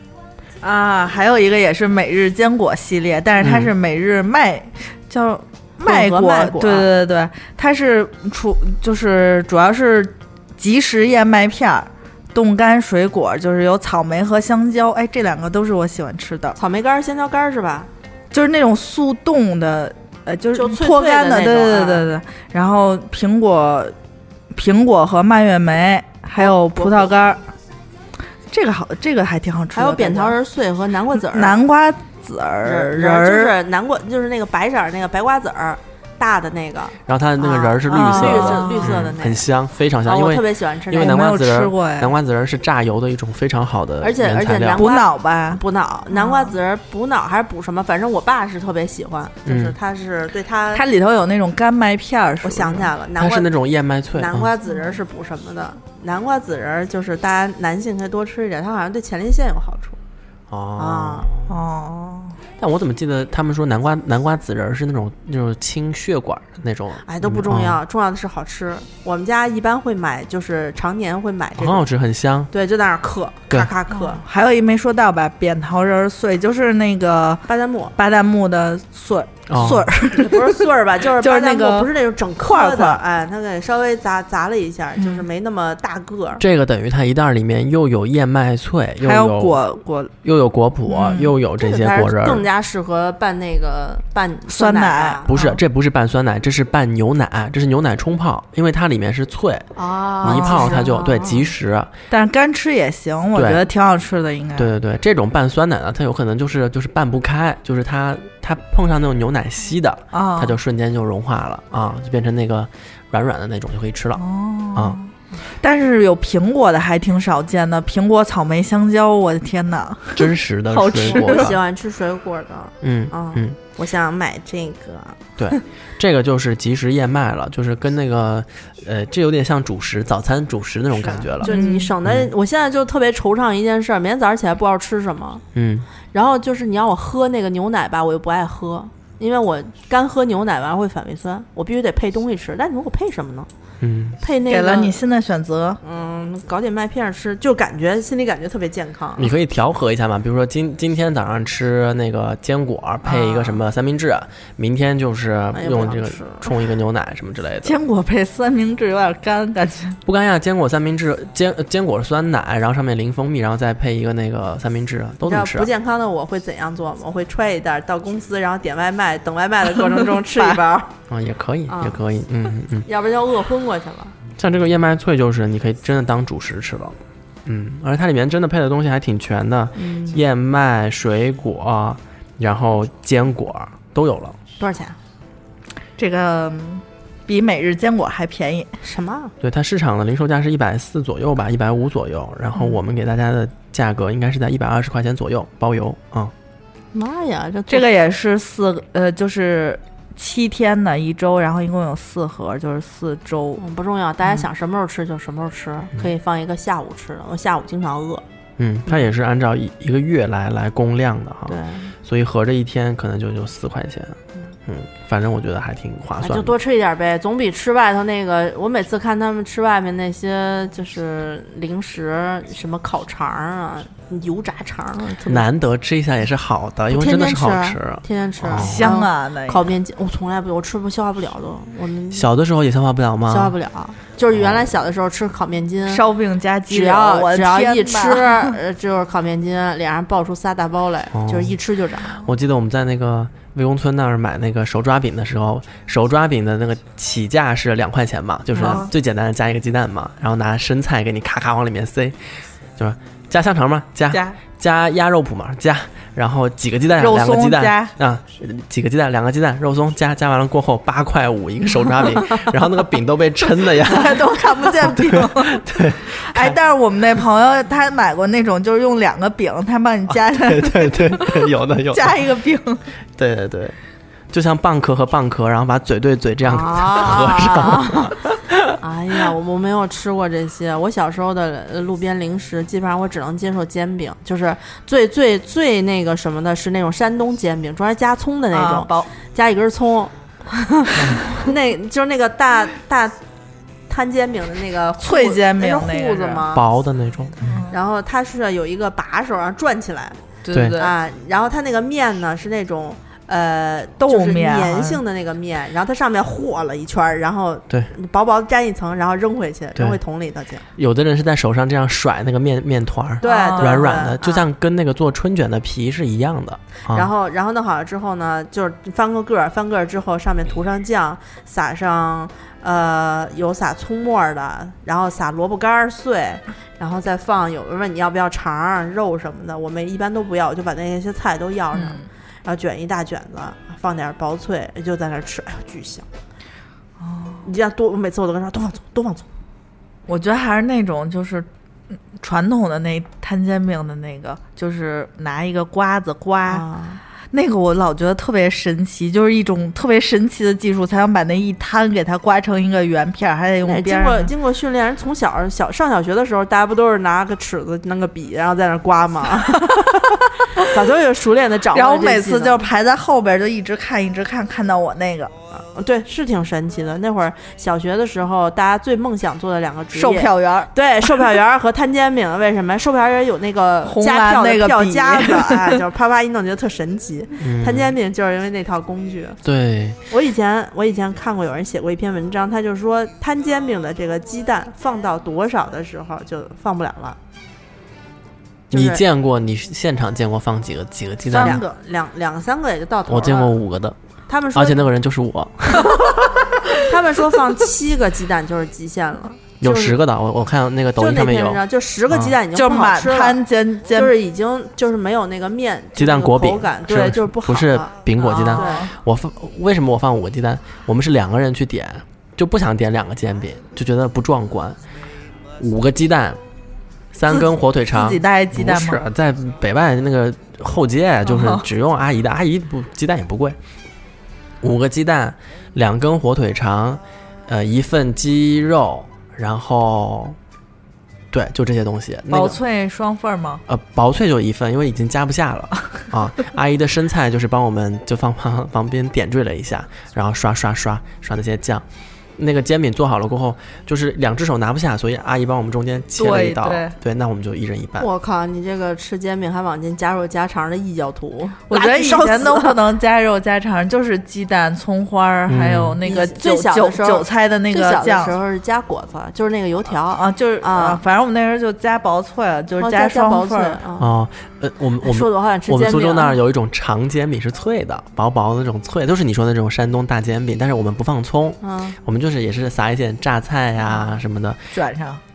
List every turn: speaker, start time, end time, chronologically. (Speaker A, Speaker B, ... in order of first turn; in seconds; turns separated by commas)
Speaker A: 0.6-16.6, Speaker B: 3.4-3.7, Speaker C: 5.8-6.9, Speaker C: 16.6-17.9, Speaker A: 18.3-23.9, Speaker C: 20.5-22.1, Speaker A: 24.5-27.4, Speaker C: 26.4-27.2, Speaker A: 28.5-30.4, Speaker C: 29.7-31.6, Speaker A: 31.3-33.5, Speaker C: 32.6-39.5, Speaker B: 37.0-44.9, Speaker A: 37.9-39.1, Speaker C: 40.0-41.1, Speaker A: 40.9-42.1, Speaker C: 44.0-50.8, Speaker A: 44.7-46.5, Speaker B: 49.4-49.8, Speaker A: 50.7-52.9, Speaker C: 52.4-53.5, Speaker B: 53.2-54.5, Speaker C: 54.1-60.0, Speaker B: 60.5-61.5, Speaker C: 60.8-61.3, Speaker A: 61.5-62.4, Speaker B: 62.6-67.8, Speaker C: 67.0-71.8, Speaker B: 71.6-72.5, Speaker C: 72.5-74.2, Speaker A: 73.9-77.4, Speaker C: 77.5-78.0, Speaker A: 78.0-80.7, Speaker B: 79.5-79.9, Speaker C: 80.1-86.4, Speaker A: 81.2-83.0, Speaker A: 85.0-85.2, Speaker B: 86.4-89.6, Speaker A: 89.0-90.1, Speaker B: 90.2-92.4, Speaker A: 90.9-91.3, Speaker C: 91.6-95.3, Speaker A: 94.5-95.6, Speaker B: 95.3-101.9, Speaker C: 99.8-101.5, Speaker A: 100.2-100.8, Speaker A: 102.1-104.7, Speaker B: 103.3-103.6, Speaker B: 104.5-114.2, Speaker A: 110.1-110.5, Speaker A: 114.2-121.5, Speaker B: 120.2-121.6, Speaker C: 121.0-125.3, Speaker B: 122.8-123.6, Speaker B: 125.4-132.3, Speaker C: 131.3-135.4, Speaker A: 131.4-131.9, Speaker B: 135.5-135.9, Speaker C: 136.1-143.5, Speaker B: 143.8-144.2, Speaker C: 144.2-145.0, Speaker A: 144.5-145.8, Speaker C: 145.8-149.3, Speaker B: 149.2-157.8, Speaker C: 153.1-153.6, Speaker C: 155.5-156.5, Speaker A: 157.6-160.0, Speaker B: 160.1-165.7, Speaker C: 165.2-170.9, Speaker B: 171.1-172.9, Speaker C: 171.7-172.0, Speaker C: 172.8-174.2, Speaker B: 174.4-184.4, Speaker C: 179.8-180.2, Speaker C: 184.6-185.0, Speaker A: 186.0-188.8, Speaker C: 188.8-189.3, Speaker B: 189.4-196.3, Speaker C: 196.9-197.9, Speaker A: 197.7-203.6, Speaker C: 203.6-208.2, Speaker B: 208.6-216.5, Speaker C: 211.5-211.9, Speaker C: 216.2-225.5, Speaker B: 225.3-228.9, Speaker C: 226.9-232.3, Speaker A: 228.5-229.7, Speaker B: 232.1-233.5, Speaker C: 233.3-236.0, Speaker B: 234.3-234.7, Speaker A: 235.9-238.6, Speaker C: 236.7-242.2, Speaker B: 241.1-241.5, Speaker B: 242.1-266.6, Speaker A: 248.6-248.9, Speaker A: 254.1-254.4, Speaker A: 257.0-257.9, Speaker A: 263.6-272.8, Speaker B: 270.1-272.2, Speaker B: 273.2-273.8, Speaker B: 274.3-278.8, Speaker C: 276.4-278.1, Speaker C: 278.8-290.1, Speaker A: 288.5-289.1, Speaker C: 290.7-293.2, Speaker B: 291.0-291.3, Speaker C: 293.9-296.6, Speaker A: 295.0-296.4, Speaker B: 296.5-297.6, Speaker A: 297.4-297.7, Speaker C: 297.7-300.2, Speaker A: 300.4-300.9, Speaker B: 300.5-300.8, Speaker C: 300.7-310.6, Speaker A: 304.0-305.0, Speaker B: 310.8-317.1, Speaker C: 313.2-314.4, Speaker A: 313.2-314.0, Speaker C: 316.9-336.1, Speaker A: 331.7-332.1, Speaker A: 337.0-337.4, Speaker C: 337.4-339.3, Speaker A: 340.1-341.5, Speaker A: 342.1-346.6, Speaker C: 346.5-347.0, Speaker A: 347.3-354.3, Speaker C: 353.6-362.6, Speaker A: 359.6-360.0, Speaker A: 361.7-365.3, Speaker C: 365.5-379.4, Speaker A: 369.9-371.3, Speaker A: 373.8-375.8, Speaker B: 377.4-377.9, Speaker B: 379.4-380.0, Speaker C: 380.1-387.2, Speaker C: 388.7-389.0, Speaker B: 388.7-391.6, Speaker A: 391.3-391.7, Speaker C: 391.3-393.6, Speaker B: 393.1-393.9, Speaker C: 394.3-394.9, Speaker B: 394.5-396.2, Speaker C: 396.8-400.0, Speaker B: 399.6-402.3, Speaker C: 401.0-407.9, Speaker A: 402.5-404.1, Speaker B: 405.9-414.8, Speaker A: 408.2-408.9, Speaker C: 408.4-408.9, Speaker B: 415.6-416.4, Speaker B: 417.1-423.6, Speaker A: 417.9-419.0, Speaker A: 421.3-421.6, Speaker B: 424.6-430.4, Speaker B: 431.3-432.6, Speaker A: 432.3-433.6, Speaker B: 433.7-441.8, Speaker B: 442.4-448.1, Speaker A: 446.2-446.9, Speaker C: 448.0-452.8, Speaker A: 451.7-458.4, Speaker B: 455.5-456.0, Speaker C: 456.0-461.0, Speaker A: 460.1-463.8, Speaker C: 462.8-464.1, Speaker B: 464.0-474.7, Speaker C: 465.0-466.4, Speaker C: 471.6-472.0, Speaker C: 473.9-474.1, Speaker A: 474.7-475.2